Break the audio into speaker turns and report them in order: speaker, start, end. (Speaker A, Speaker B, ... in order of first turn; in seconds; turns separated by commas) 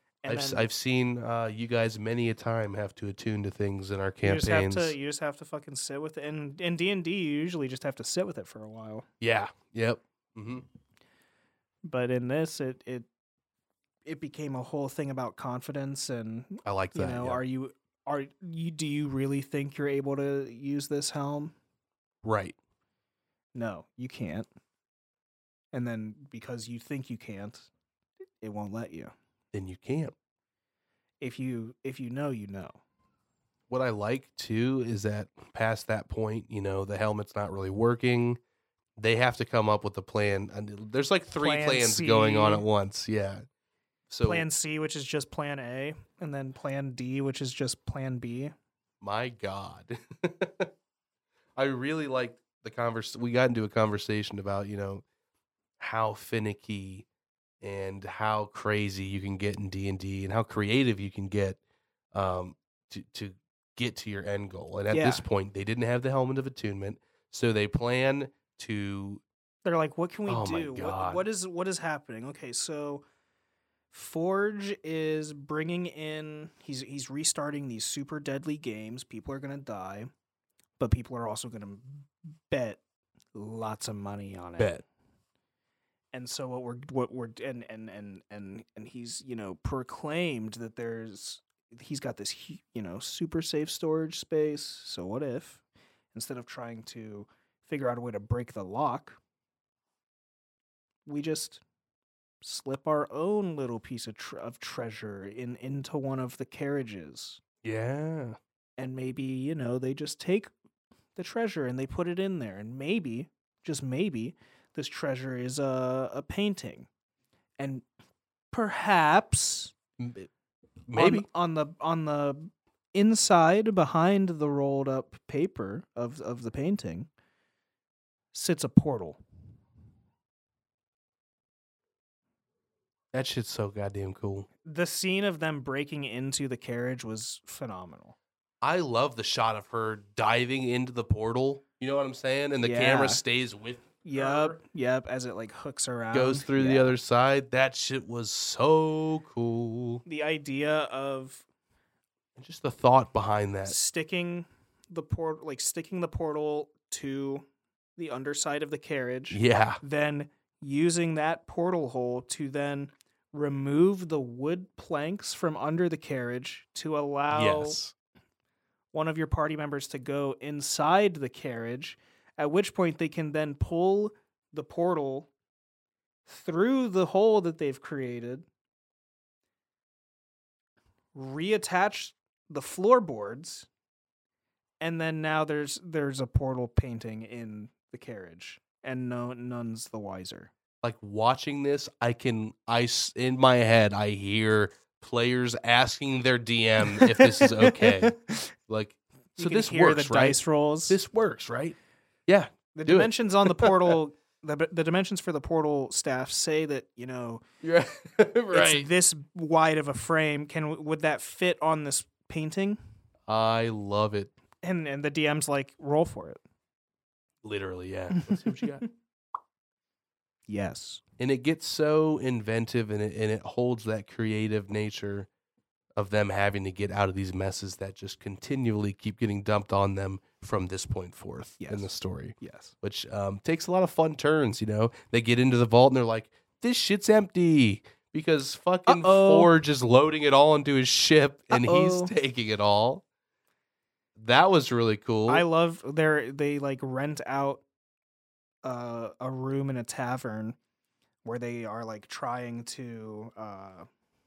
Speaker A: 0.2-0.7, Speaker B: 0.3-5.0, Speaker A: 4.2-9.1, Speaker B: 9.2-10.6, Speaker A: 11.8-13.1, Speaker A: 14.1-21.5, Speaker B: 16.6-17.4, Speaker B: 22.2-22.6, Speaker A: 23.5-24.5, Speaker A: 25.7-27.7, Speaker A: 28.4-29.1, Speaker B: 29.5-30.1, Speaker A: 31.2-32.8, Speaker B: 33.7-38.4, Speaker B: 39.0-43.4, Speaker A: 41.4-42.6, Speaker B: 44.1-44.5, Speaker A: 44.2-48.5, Speaker B: 49.0-50.7, Speaker B: 51.5-55.0, Speaker B: 55.8-57.0, Speaker B: 57.6-61.6, Speaker B: 62.1-69.2, Speaker A: 64.9-65.2, Speaker A: 69.6-73.0, Speaker B: 70.3-71.2, Speaker A: 73.9-80.1, Speaker A: 80.8-82.8, Speaker A: 83.3-84.8, Speaker B: 84.6-84.8, Speaker A: 86.1-95.6, Speaker A: 96.1-99.2, Speaker A: 101.0-101.6, Speaker A: 102.4-107.4, Speaker B: 107.6-108.4, Speaker A: 108.8-110.5, Speaker A: 111.2-116.9, Speaker A: 117.6-117.8, Speaker A: 118.5-119.7, Speaker B: 120.0-120.3, Speaker B: 120.9-121.2, Speaker A: 120.9-127.1, Speaker A: 128.3-129.2, Speaker B: 133.1-134.5, Speaker A: 134.6-138.2, Speaker B: 138.6-144.6, Speaker A: 142.6-143.2, Speaker A: 144.0-147.0, Speaker B: 146.1-150.0, Speaker A: 150.1-151.4, Speaker B: 152.3-153.8, Speaker A: 153.7-157.4, Speaker A: 158.0-167.8, Speaker B: 159.3-159.8, Speaker B: 167.3-167.9, Speaker A: 168.9-175.3, Speaker A: 176.2-178.4, Speaker A: 181.1-183.7, Speaker A: 184.8-190.5, Speaker B: 190.8-201.8, Speaker A: 196.9-198.5, Speaker A: 199.4-201.0, Speaker B: 202.3-203.9, Speaker A: 202.7-207.4, Speaker B: 207.6-208.9, Speaker A: 208.5-212.8, Speaker B: 213.3-214.3, Speaker A: 214.6-216.4, Speaker B: 217.4-218.8, Speaker A: 218.1-218.8, Speaker A: 220.5-221.0, Speaker B: 221.2-225.3, Speaker B: 225.9-243.0, Speaker A: 231.6-232.7, Speaker A: 238.9-239.5, Speaker A: 241.5-242.1, Speaker B: 244.2-245.4, Speaker A: 245.3-247.6, Speaker A: 248.6-250.6, Speaker A: 251.2-253.9